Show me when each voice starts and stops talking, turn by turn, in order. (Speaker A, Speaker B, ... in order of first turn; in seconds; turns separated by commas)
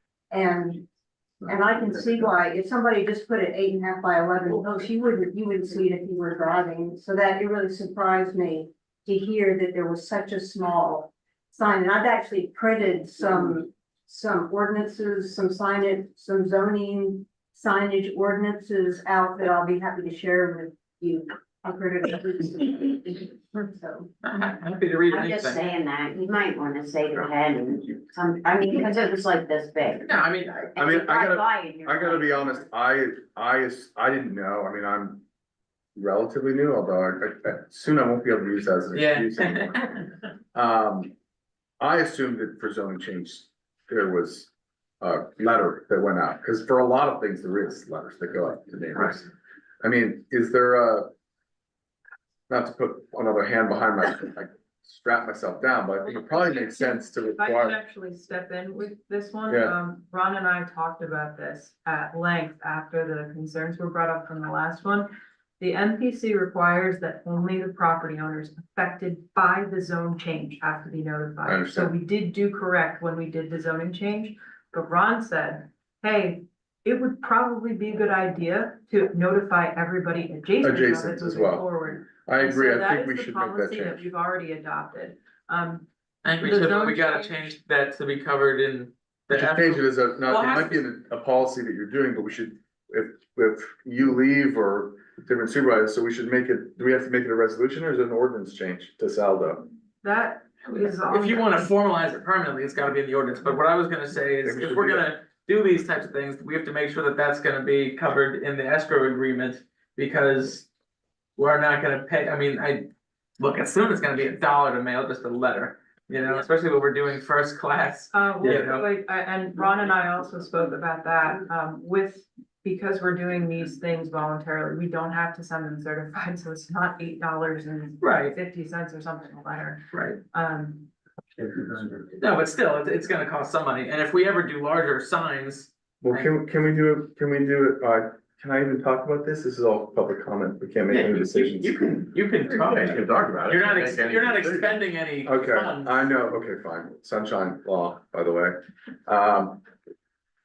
Speaker A: 0.3-0.9, Speaker A: 1.4-24.1, Speaker B: 24.2-25.6, Speaker C: 25.1-32.6, Speaker B: 30.1-30.6, Speaker D: 30.8-35.2, Speaker D: 36.0-39.9, Speaker B: 38.9-40.0, Speaker D: 40.5-41.1, Speaker D: 41.8-49.3, Speaker D: 49.8-51.1, Speaker D: 52.5-57.8, Speaker E: 56.2-85.9, Speaker D: 59.5-59.8, Speaker D: 71.5-71.9, Speaker D: 80.6-84.0, Speaker B: 86.2-90.8, Speaker E: 86.4-87.5, Speaker D: 89.3-99.7, Speaker E: 100.0-101.7, Speaker B: 100.7-110.7, Speaker D: 104.4-105.1, Speaker B: 111.4-112.9, Speaker B: 113.4-118.9, Speaker E: 118.1-129.8, Speaker B: 128.0-128.3, Speaker B: 129.9-130.2, Speaker E: 130.3-130.9, Speaker B: 132.2-136.3, Speaker D: 136.0-141.9, Speaker B: 140.9-146.1, Speaker D: 142.5-144.6, Speaker D: 145.2-149.6